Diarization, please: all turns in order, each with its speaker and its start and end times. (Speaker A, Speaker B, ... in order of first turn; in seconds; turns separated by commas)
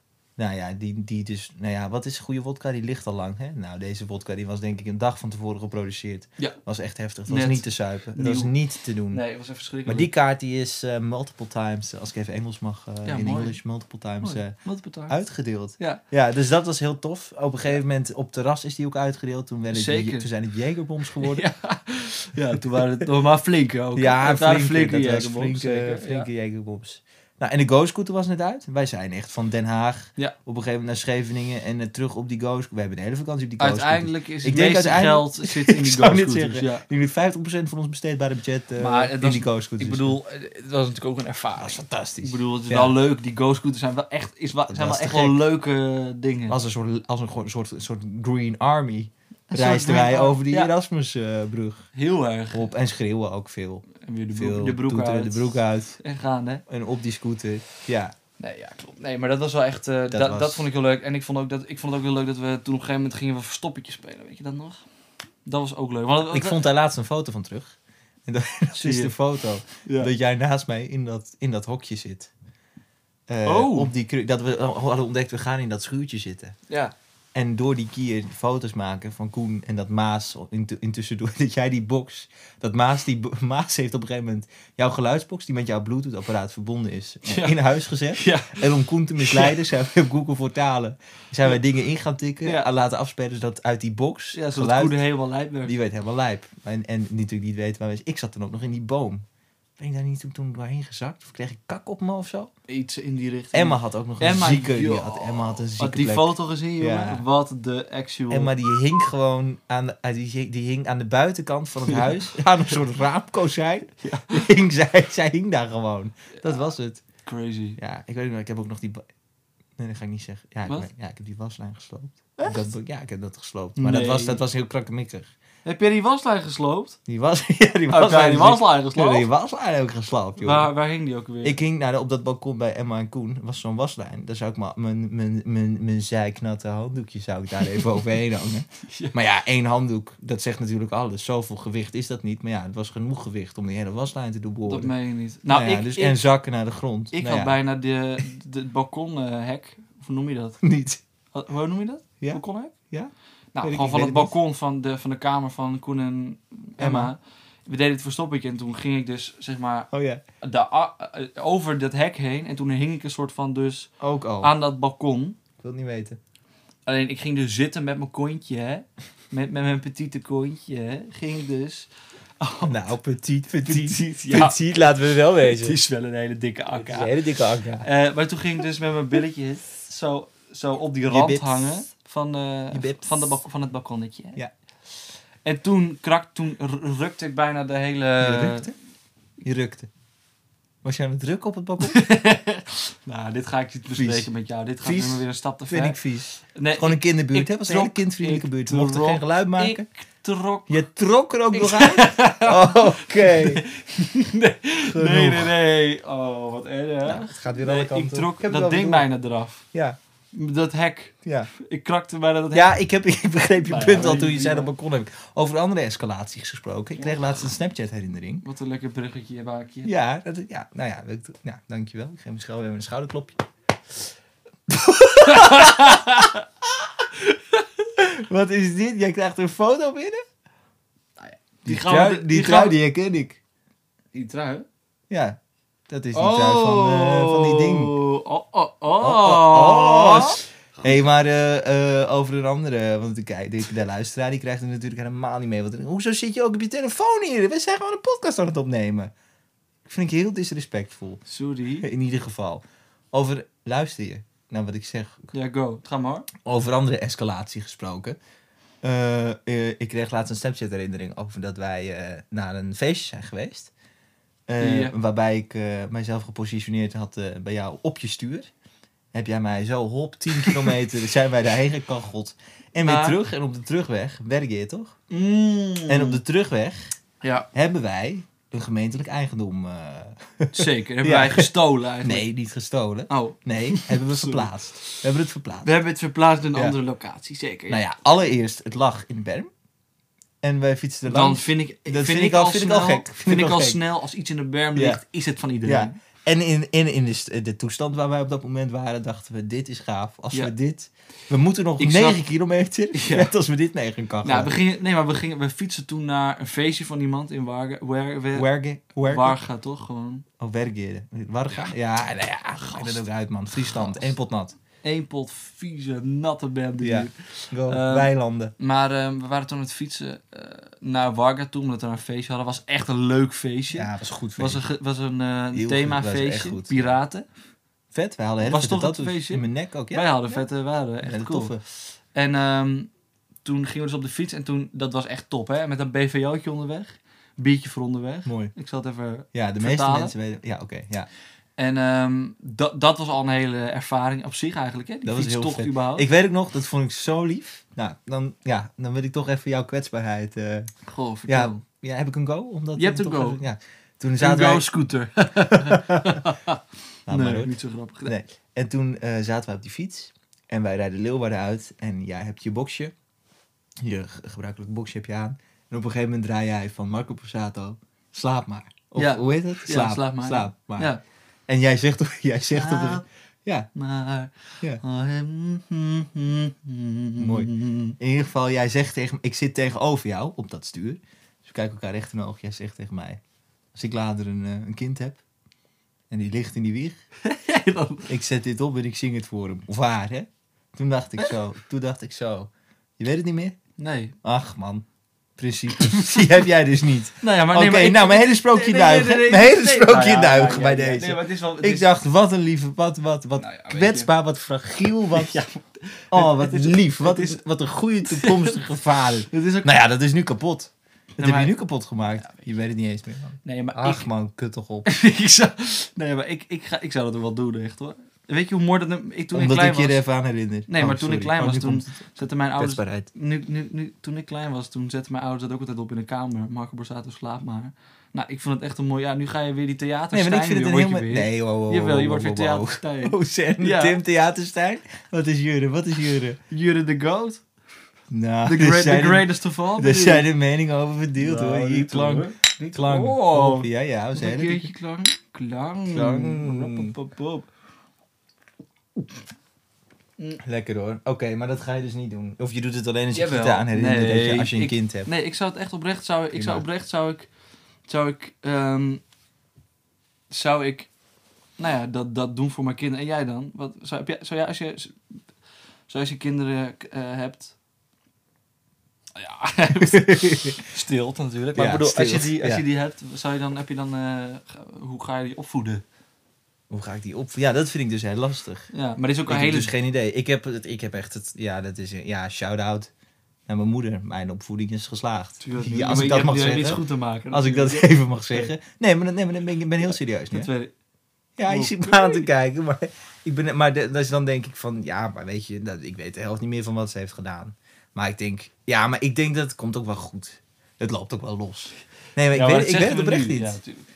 Speaker A: 0.4-9.2, Speaker B: 7.3-8.6, Speaker B: 9.1-10.1, Speaker A: 9.9-21.4, Speaker B: 13.1-13.6, Speaker B: 14.2-15.2, Speaker B: 19.7-20.3, Speaker B: 21.2-26.3, Speaker A: 23.9-40.2, Speaker B: 33.6-36.8, Speaker B: 38.8-46.6, Speaker A: 41.6-43.0, Speaker A: 44.7-45.4, Speaker A: 46.5-51.9, Speaker B: 49.5-50.7, Speaker B: 51.9-52.7, Speaker A: 52.5-56.0, Speaker B: 54.0-56.6, Speaker A: 56.7-58.1, Speaker B: 58.4-64.8, Speaker A: 60.1-60.7, Speaker B: 65.5-66.6, Speaker A: 66.3-72.3, Speaker B: 68.8-69.1, Speaker B: 69.8-70.1, Speaker A: 73.3-76.6, Speaker B: 73.5-73.9, Speaker B: 76.7-76.9, Speaker A: 77.3-95.0, Speaker B: 87.3-87.6, Speaker B: 88.2-88.7, Speaker B: 89.2-89.5, Speaker B: 94.3-95.7, Speaker A: 95.7-99.2, Speaker A: 99.8-102.5, Speaker B: 102.7-108.5, Speaker A: 103.5-107.2, Speaker A: 108.3-117.0, Speaker B: 114.0-114.4, Speaker B: 117.2-117.8, Speaker A: 117.8-119.1, Speaker A: 119.8-125.3, Speaker B: 122.4-122.7, Speaker B: 123.8-124.4, Speaker B: 125.7-127.0, Speaker A: 127.1-130.7, Speaker B: 127.9-129.3, Speaker B: 130.4-131.6, Speaker A: 131.4-144.9, Speaker B: 138.9-139.2, Speaker B: 144.7-146.3, Speaker A: 145.5-147.6, Speaker B: 147.1-150.6, Speaker A: 150.6-151.0, Speaker B: 151.3-152.8, Speaker A: 152.2-154.3, Speaker B: 153.6-159.9, Speaker A: 156.8-157.1, Speaker A: 159.9-160.2, Speaker B: 160.4-163.9, Speaker A: 164.0-164.5, Speaker B: 164.4-165.4, Speaker A: 165.6-166.2, Speaker B: 166.9-171.9, Speaker B: 172.4-172.8, Speaker A: 172.6-175.8, Speaker B: 173.6-177.2, Speaker A: 176.8-177.9, Speaker B: 177.8-184.4, Speaker A: 181.1-181.8, Speaker A: 182.7-183.4, Speaker B: 185.4-188.7, Speaker A: 188.2-188.7, Speaker A: 189.4-189.9, Speaker A: 190.8-192.0, Speaker B: 191.8-200.8, Speaker A: 194.0-194.3, Speaker A: 194.8-199.8, Speaker A: 200.7-203.6, Speaker B: 201.5-209.7, Speaker A: 204.9-205.5, Speaker A: 207.1-209.1, Speaker B: 210.3-212.7, Speaker A: 211.2-211.5, Speaker A: 212.5-218.4, Speaker B: 213.7-214.7, Speaker B: 218.4-219.9, Speaker A: 219.8-223.4, Speaker A: 224.7-226.3, Speaker B: 225.2-226.4, Speaker A: 228.0-230.2, Speaker B: 231.2-232.8, Speaker A: 231.7-233.4, Speaker B: 234.1-234.7, Speaker A: 235.1-235.4, Speaker A: 235.9-238.0, Speaker B: 236.1-240.4, Speaker A: 239.0-249.1, Speaker A: 249.9-251.2, Speaker B: 251.3-251.9, Speaker A: 251.8-255.3, Speaker B: 255.3-256.3, Speaker A: 256.4-258.2, Speaker A: 258.8-263.7, Speaker A: 264.5-268.5, Speaker B: 264.6-265.0, Speaker A: 269.1-274.9, Speaker B: 272.8-273.2, Speaker B: 275.1-276.2, Speaker A: 275.9-277.0, Speaker B: 277.2-277.5, Speaker A: 277.5-281.5, Speaker B: 280.5-282.3, Speaker A: 282.0-285.7, Speaker B: 283.1-285.0, Speaker B: 285.6-287.8, Speaker A: 287.7-289.5, Speaker A: 290.4-293.8, Speaker B: 291.1-296.0, Speaker A: 294.8-295.0, Speaker A: 295.7-304.5, Speaker B: 301.8-302.2, Speaker B: 302.9-303.3, Speaker B: 304.2-308.5, Speaker A: 308.3-309.4, Speaker B: 309.0-310.2, Speaker A: 310.4-314.6, Speaker B: 312.5-313.1, Speaker B: 313.6-314.1, Speaker B: 314.8-327.3, Speaker A: 316.8-318.5, Speaker A: 323.7-324.6, Speaker A: 325.5-326.9, Speaker A: 327.9-330.4, Speaker B: 328.4-332.9, Speaker A: 331.0-331.6, Speaker B: 333.4-340.1, Speaker A: 338.3-338.5, Speaker A: 339.3-341.1, Speaker B: 341.6-346.1, Speaker A: 345.1-350.7, Speaker B: 350.9-351.6, Speaker A: 351.3-354.8, Speaker B: 352.8-353.4, Speaker B: 354.2-358.1, Speaker A: 355.5-356.2, Speaker A: 357.1-357.5, Speaker A: 358.1-362.9, Speaker A: 363.8-370.9, Speaker B: 369.0-371.0, Speaker A: 371.5-373.7, Speaker B: 372.5-373.0, Speaker B: 373.8-378.0, Speaker A: 377.2-383.2, Speaker A: 383.7-385.2, Speaker A: 386.1-387.0, Speaker B: 387.2-388.1, Speaker A: 388.1-393.6, Speaker B: 393.8-394.1, Speaker A: 394.2-394.9, Speaker A: 395.4-405.4, Speaker B: 397.2-401.9, Speaker B: 403.4-404.1, Speaker B: 405.1-407.4, Speaker A: 406.1-414.9, Speaker B: 408.1-409.7, Speaker B: 411.2-411.5, Speaker B: 412.2-412.4, Speaker B: 413.4-414.1, Speaker B: 414.9-420.0, Speaker A: 419.3-422.0, Speaker B: 420.7-434.0, Speaker A: 422.6-423.1, Speaker A: 430.1-436.4, Speaker B: 436.5-437.4, Speaker A: 438.1-444.7, Speaker B: 438.4-440.3, Speaker B: 441.2-447.5, Speaker A: 445.9-446.9, Speaker A: 450.4-455.1, Speaker B: 453.1-457.3, Speaker A: 456.3-456.6, Speaker B: 457.9-459.0, Speaker B: 460.3-460.9, Speaker B: 461.6-465.0, Speaker B: 465.9-467.5, Speaker B: 469.2-475.8, Speaker A: 469.9-470.6, Speaker A: 471.6-472.6, Speaker A: 476.7-478.7, Speaker B: 478.7-479.7, Speaker A: 479.3-482.9, Speaker A: 483.5-490.5, Speaker B: 485.4-488.5, Speaker B: 489.8-490.7, Speaker A: 491.4-503.6, Speaker B: 491.5-492.3, Speaker B: 502.3-503.9